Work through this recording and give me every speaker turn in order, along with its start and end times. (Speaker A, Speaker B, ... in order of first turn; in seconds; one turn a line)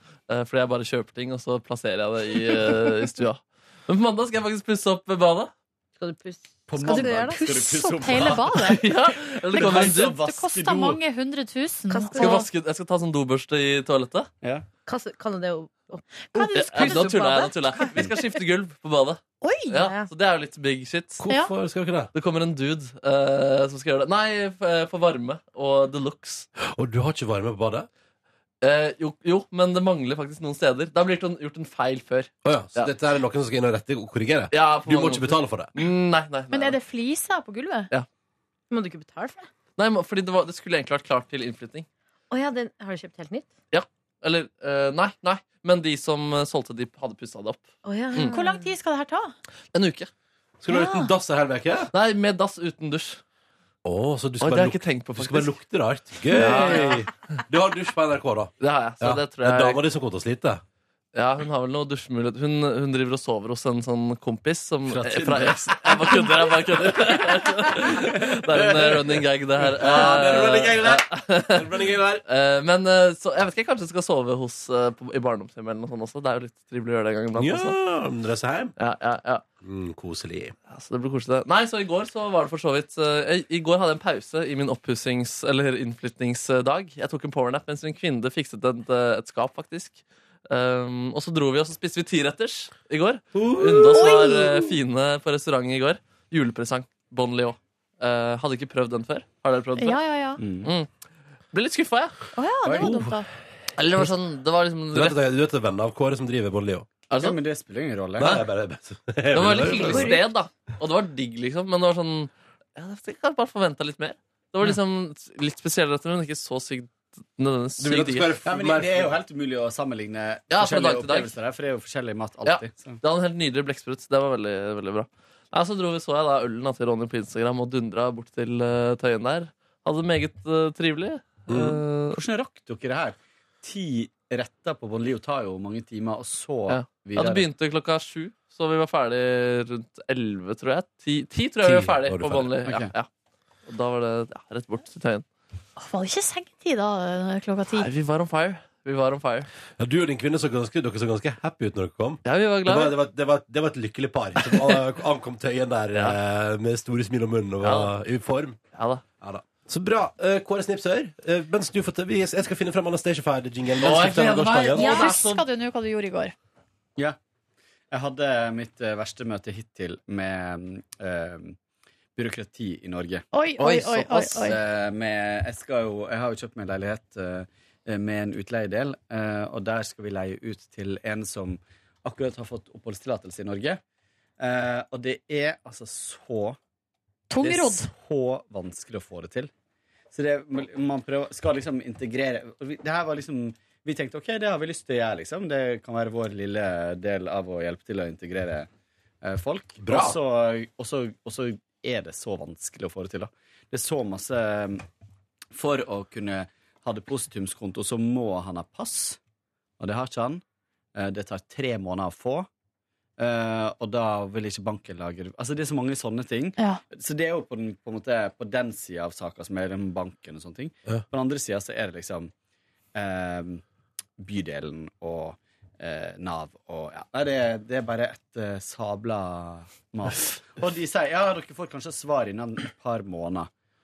Speaker A: 0.3-5.5
Speaker B: 6.0-7.5
Speaker C: 6.7-8.8
Speaker D: 6.8-8.9
Speaker A: 8.7-10.2
Speaker D: 9.5-12.4
Speaker C: 9.6-11.0
Speaker B: 11.9-12.5
Speaker A: 12.2-14.3
Speaker B: 14.9-17.5
Speaker D: 16.3-17.9
Speaker A: 16.5-21.2
Speaker D: 19.4-19.9
Speaker B: 19.8-20.1
Speaker E: 21.2-22.1
Speaker A: 22.1-26.5
Speaker E: 26.6-27.9
Speaker A: 28.6-32.9
Speaker E: 32.4-35.7
Speaker A: 34.5-36.8
Speaker D: 36.5-37.9
Speaker B: 38.7-39.5
Speaker A: 39.8-41.9
Speaker B: 42.3-43.5
Speaker A: 43.7-48.4
Speaker B: 47.8-48.6
Speaker D: 48.3-49.3
Speaker A: 49.7-50.1
Speaker E: 50.6-51.9
Speaker D: 50.7-51.1
Speaker A: 51.9-53.2
Speaker E: 53.9-60.6
Speaker A: 54.4-55.6
Speaker A: 56.3-57.1
Speaker A: 58.6-59.8
Speaker A: 61.1-77.8
Speaker E: 64.9-65.6
Speaker C: 65.1-66.3
Speaker C: 68.0-68.9
Speaker E: 69.6-72.2
Speaker E: 77.4-78.8
Speaker A: 78.8-79.4
Speaker E: 79.6-80.5
Speaker A: 80.7-100.0
Speaker E: 93.3-94.1
Speaker D: 93.9-94.7
Speaker D: 99.8-100.4
Speaker C: 100.4-100.7
Speaker A: 100.6-100.9
Speaker A: 101.5-102.2
Speaker D: 102.4-103.3
Speaker C: 102.7-102.9
Speaker E: 102.8-103.1
Speaker A: 103.8-105.2
Speaker E: 104.9-106.9
Speaker A: 107.1-107.4
Speaker C: 107.2-108.4
Speaker E: 108.2-110.2
Speaker A: 109.3-118.3
Speaker B: 109.7-110.2
Speaker E: 117.8-119.1
Speaker C: 118.4-123.0
Speaker A: 120.5-121.3
Speaker A: 122.5-132.2
Speaker E: 131.5-131.8
Speaker C: 132.1-137.5
Speaker A: 136.7-143.1
Speaker E: 141.6-142.5
Speaker C: 142.7-142.9
Speaker A: 143.7-145.2
Speaker D: 145.8-147.9
Speaker A: 147.7-149.5
Speaker E: 149.8-158.6
Speaker A: 152.2-152.9
Speaker A: 157.6-157.9
Speaker A: 158.8-159.0
Speaker E: 159.2-164.9
Speaker A: 163.8-165.4
Speaker D: 164.8-166.3
Speaker B: 164.9-165.1
Speaker C: 167.9-171.6
Speaker C: 172.2-183.8
Speaker D: 173.3-174.6
Speaker C: 184.4-186.6
Speaker D: 187.3-187.9
Speaker C: 187.4-189.5
Speaker C: 190.1-198.7
Speaker C: 199.2-204.8
Speaker E: 199.8-200.2
Speaker C: 205.5-209.2
Speaker C: 209.8-210.4
Speaker C: 210.9-212.5
Speaker C: 213.2-222.3
Speaker C: 222.9-223.6
Speaker C: 224.2-233.5